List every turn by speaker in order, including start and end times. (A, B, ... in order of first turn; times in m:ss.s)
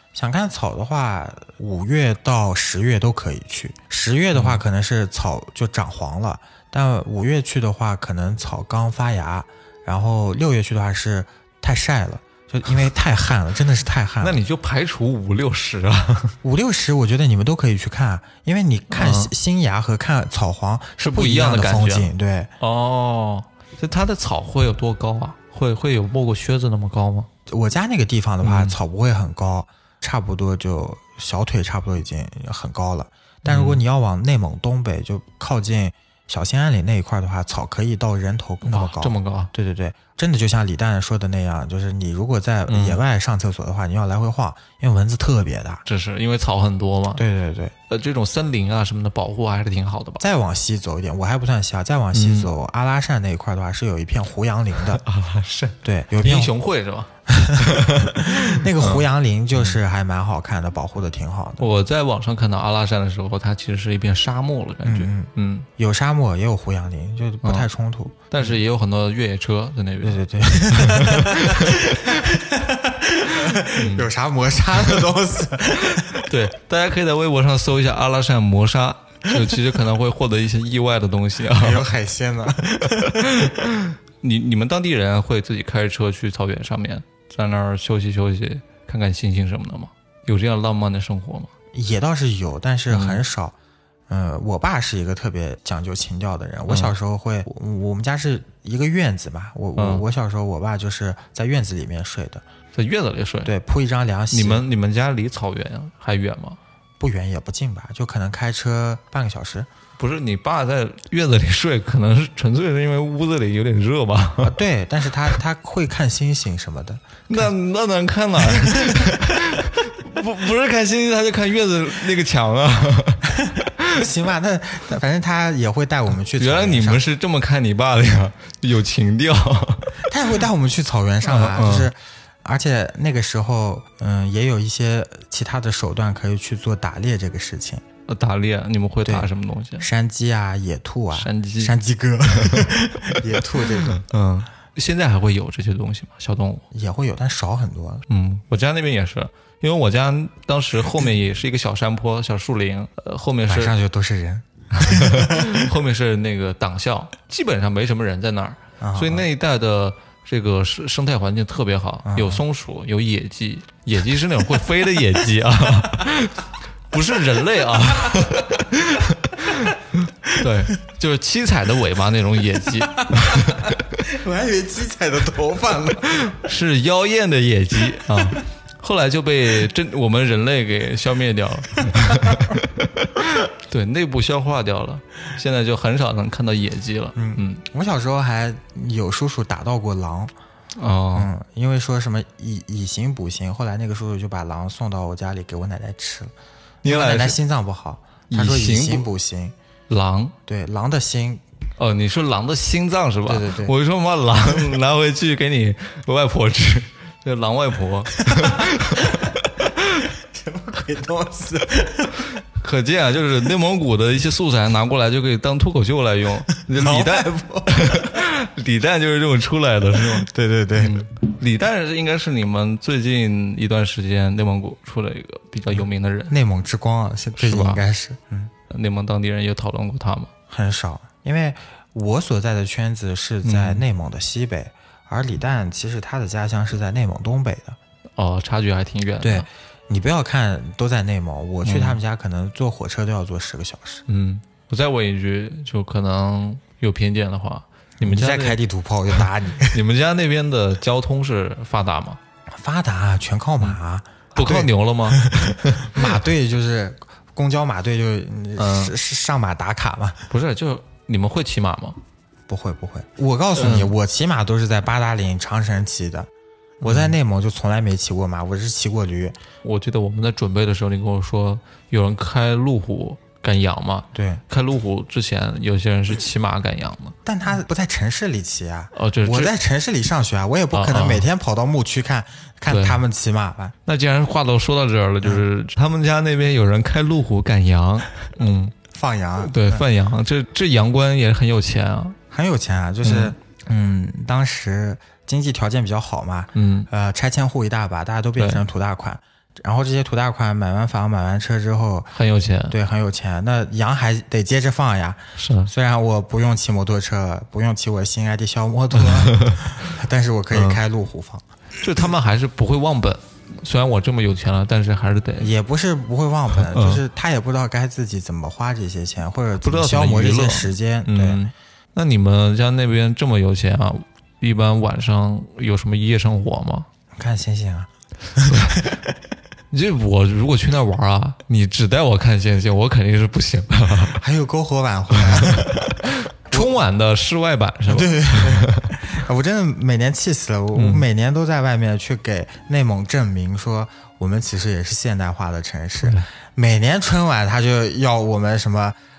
0:00.1-0:14.4 A
0:04.3-0:04.6 B
0:14.2-0:16.3 B
0:16.4-0:22.5 A
0:18.9-0:19.3 B
0:21.0-0:27.3 B
0:27.5-0:45.8 A
0:28.4-0:28.8 B
0:33.4-0:33.8 B
0:38.6-0:39.5 B
0:42.7-0:43.0 B
0:45.8-0:47.2 B
0:47.2-0:47.7 A
0:47.9-0:50.2 B
0:50.2-0:55.0 A
0:52.1-0:52.5 B
0:54.8-0:59.8 B
0:55.8-0:56.5 A
0:57.3-1:01.6 A
1:01.6-1:05.7 B
1:04.8-1:08.5 A
1:07.4-1:07.7 B
1:08.3-1:12.2 B
1:10.0-1:16.2 A
1:13.7-1:14.1 B
1:15.9-1:21.9 B
1:21.6-1:23.3 A
1:22.9-1:31.5 B
1:31.7-1:33.5 A
1:32.9-1:33.2 B
1:34.1-1:42.4 A
1:36.7-1:36.9 B
1:39.8-1:40.0 B
1:42.7-1:43.5 B
1:43.4-1:44.6 A
1:44.3-1:46.6 B
1:47.0-1:49.7 A
1:50.0-1:54.6 B
1:54.4-1:57.5 A
1:57.3-2:04.0 B
1:58.4-1:59.2 A
2:03.9-2:07.0 A
2:06.4-2:10.0 B
2:10.0-2:17.8 A
2:11.2-2:11.9 B
2:18.1-2:19.9 B
2:19.0-2:24.0 A
2:21.1-2:21.7 B
2:22.4-2:22.7 B
2:23.3-2:26.6 B
2:26.7-2:28.0 A
2:28.1-2:33.7 B
2:33.5-2:35.7 A
2:34.7-2:53.8 B
2:38.8-2:39.3 A
2:42.0-2:42.4 A
2:52.9-2:56.2 A
2:56.2-3:07.6 B
3:02.0-3:02.4 A
3:07.2-3:10.3 A
3:10.8-3:11.3 B
3:11.1-3:16.3 A
3:16.8-3:19.5 A
3:16.8-3:17.4 B
3:18.3-3:19.1 B
3:19.9-3:20.4 B
3:20.4-3:21.4 A
3:21.8-3:30.1 B
3:23.2-3:23.7 A
3:28.2-3:29.3 A
3:30.2-3:32.3 A
3:32.4-3:46.3 B
3:36.7-3:38.0 A
3:40.2-3:41.0 A
3:45.8-3:48.5 A
3:47.4-3:47.8 B
3:48.7-3:50.3 B
3:50.5-3:57.8 A
3:53.4-3:53.8 B
3:58.2-3:59.5 B
3:59.2-4:04.0 A
4:01.6-4:02.0 B
4:04.1-4:08.6 B
4:08.0-4:09.8 A
4:09.1-4:12.2 B
4:12.5-4:20.3 A
4:14.3-4:16.2 B
4:18.6-4:18.9 B
4:20.3-4:22.0 B
4:22.5-4:26.3 A
4:23.6-4:23.9 B
4:26.8-4:27.2 B
4:26.8-4:29.4 A
4:29.6-4:37.2 B
4:34.1-4:34.4 A
4:37.2-4:43.7 A
4:38.9-4:39.5 B
4:40.7-4:41.2 B
4:42.7-4:43.0 B
4:43.8-4:48.7 B
4:48.9-4:49.8 A
4:49.4-4:52.2 B
4:52.3-5:02.2 A
4:53.0-4:53.3 B
4:56.5-4:56.9 B
4:58.4-4:58.6 B
5:02.1-5:02.8 B
5:02.7-5:11.4 A
5:05.4-5:05.7 B
5:08.9-5:09.7 B
5:10.5-5:10.8 B
5:11.8-5:15.5 B
5:15.4-5:21.4 A
5:16.5-5:17.0 B
5:19.6-5:26.9 B
5:27.2-5:29.0 A
5:28.4-5:28.8 B
5:29.7-5:34.2 B
5:34.2-5:36.7 A
5:35.1-5:38.9 B
5:37.9-5:49.0 A
5:40.7-5:41.0 B
5:46.0-5:46.2 B